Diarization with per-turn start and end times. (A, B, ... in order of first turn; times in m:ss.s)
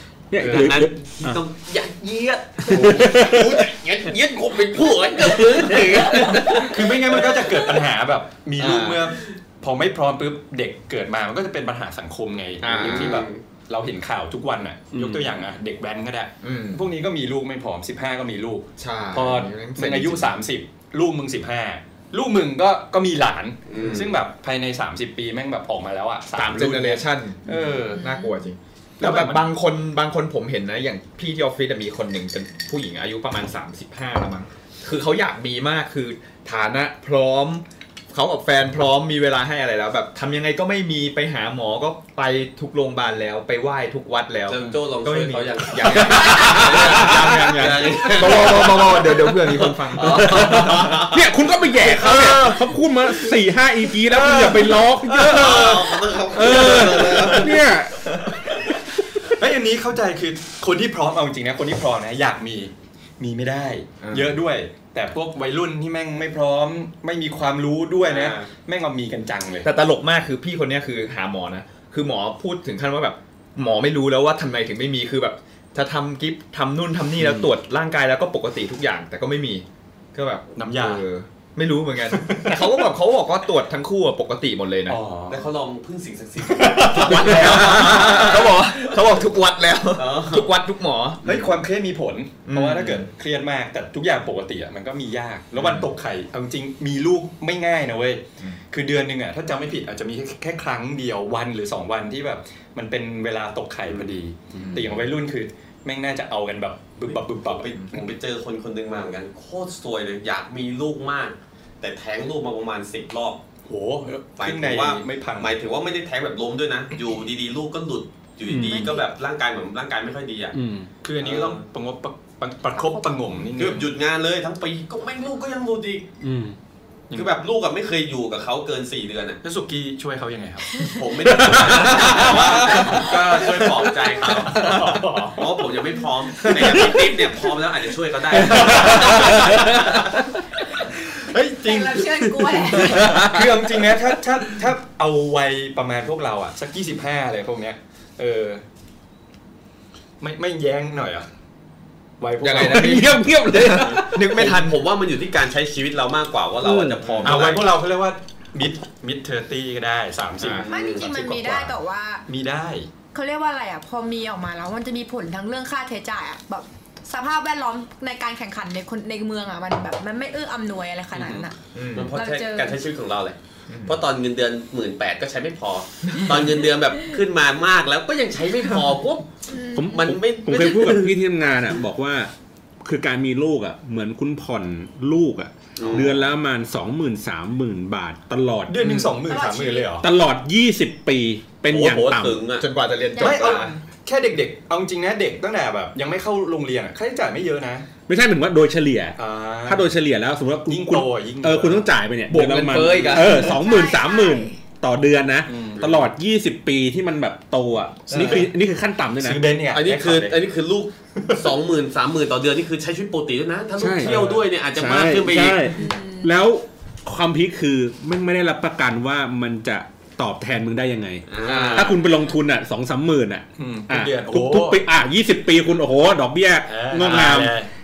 0:00.3-0:01.3 A
0:00.4-0:00.8 B
0:00.4-0:07.5 C
0:02.7-0:03.6 A
0:06.5-0:28.0 B
0:08.6-0:09.0 D
0:12.6-0:13.3 D
0:12.7-0:13.4 C
0:14.9-0:15.3 A
0:16.4-0:16.9 D
0:18.8-0:20.4 D
0:23.7-0:24.2 C
0:26.3-0:51.1 D
0:27.9-0:28.4 E
0:29.0-0:29.5 B
0:44.4-0:51.3 C
0:46.2-0:47.4 A
0:50.0-0:55.8 A
0:51.9-0:52.6 D
0:54.1-0:55.8 B
0:55.2-0:57.6 C
0:55.4-0:55.7 D
0:56.3-0:58.0 A
0:56.4-0:57.4 B
0:56.5-0:58.6 D
0:59.2-1:09.7 B
1:04.0-1:04.4 D
1:08.0-1:08.5 C
1:09.6-1:25.0 D
1:20.6-1:21.0 B
1:22.1-1:22.9 B
1:24.9-1:25.5 B
1:25.3-1:28.7 C
1:26.4-1:28.2 B
1:27.0-1:31.5 D
1:30.0-1:30.5 C
1:31.2-1:48.1 B
1:32.5-1:33.1 D
1:35.6-1:35.9 D
1:43.8-1:44.1 C
1:44.5-1:45.0 D
1:47.1-1:53.4 C
1:53.6-1:55.5 B
1:54.4-2:00.6 C
1:58.5-1:58.9 A
1:58.5-1:59.1 E
2:00.5-2:00.9 A
2:01.0-2:03.9 B
2:01.2-2:01.6 C
2:02.7-2:03.3 E
2:03.6-2:06.1 C
2:06.2-2:06.6 A
2:07.1-2:07.3 B
2:07.1-2:09.4 C
2:09.4-2:10.9 B
2:10.8-2:20.1 C
2:11.4-2:15.5 B
2:11.4-2:12.5 A
2:14.6-2:15.0 D
2:16.4-2:16.9 B
2:18.4-2:20.0 B
2:21.1-2:28.6 B
2:21.5-2:23.0 E
2:23.0-2:23.4 D
2:30.2-2:31.3 B
2:32.2-2:33.2 B
2:32.4-2:34.8 D
2:32.5-2:34.3 A
2:33.8-2:37.8 C
2:36.6-2:37.1 A
2:37.0-2:37.4 D
2:37.2-2:41.7 B
2:40.5-2:41.1 C
2:40.7-2:42.2 E
2:42.3-2:42.9 B
2:43.1-2:51.6 E
2:51.1-2:51.5 B
2:51.7-2:52.1 D
2:51.9-2:59.3 C
2:52.1-2:52.8 E
2:53.7-2:54.0 D
2:59.5-3:00.0 E
2:59.7-3:02.3 A
2:59.9-3:01.2 C
3:02.8-3:09.2 A
3:05.8-3:06.2 C
3:08.7-3:10.1 B
3:09.3-3:09.9 E
3:10.0-3:12.4 A
3:11.7-3:12.7 C
3:12.6-3:13.8 D
3:13.2-3:13.6 E
3:13.2-3:17.9 B
3:18.1-3:29.4 A
3:19.2-3:19.9 B
3:20.7-3:21.9 B
3:22.3-3:23.6 D
3:23.0-3:23.3 B
3:23.4-3:24.6 E
3:25.5-3:26.1 B
3:28.1-3:28.5 B
3:28.1-3:28.4 D
3:29.2-3:30.5 B
3:29.7-3:35.7 C
3:31.2-3:31.5 B
3:33.8-3:47.6 A
3:34.0-3:34.4 B
3:35.7-3:36.3 E
3:41.3-3:42.0 C
3:41.4-3:42.0 B
3:43.6-3:44.8 B
3:46.7-3:47.7 B